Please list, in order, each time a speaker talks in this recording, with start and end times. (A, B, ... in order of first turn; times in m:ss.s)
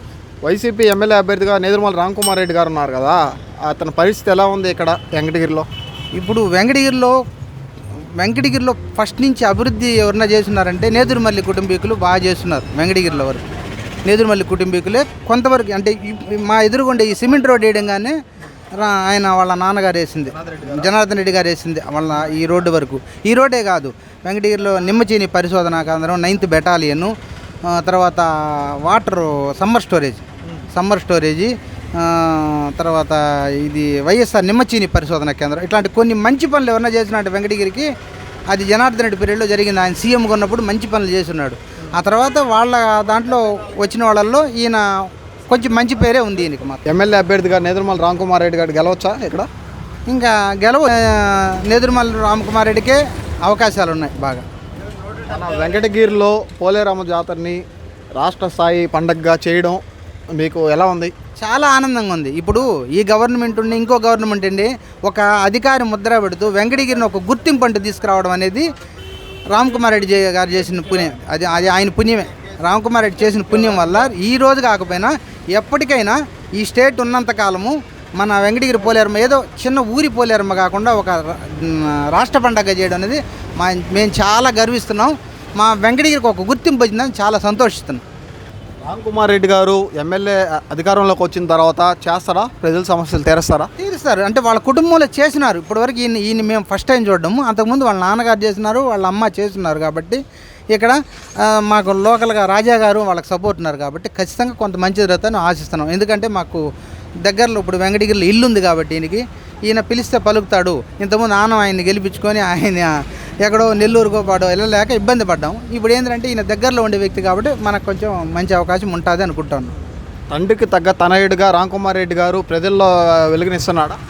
0:00.4-0:05.6 A
0:06.2-0:07.2 B
0:08.2-0:13.4 B
0:14.0-0:18.1 B
0:18.8-0:27.1 B
0:20.3-0:20.8 A
0:27.6-0:37.9 B
0:38.5-0:46.8 B
0:46.8-0:49.5 A
0:50.1-0:54.4 B
0:55.2-0:57.6 A
0:58.2-0:59.8 A
1:00.3-1:01.1 A
1:01.4-1:08.7 B
1:09.5-1:28.0 B
1:28.8-1:33.7 A
1:33.8-1:46.6 B
1:47.2-1:59.7 B
2:00.3-2:04.0 A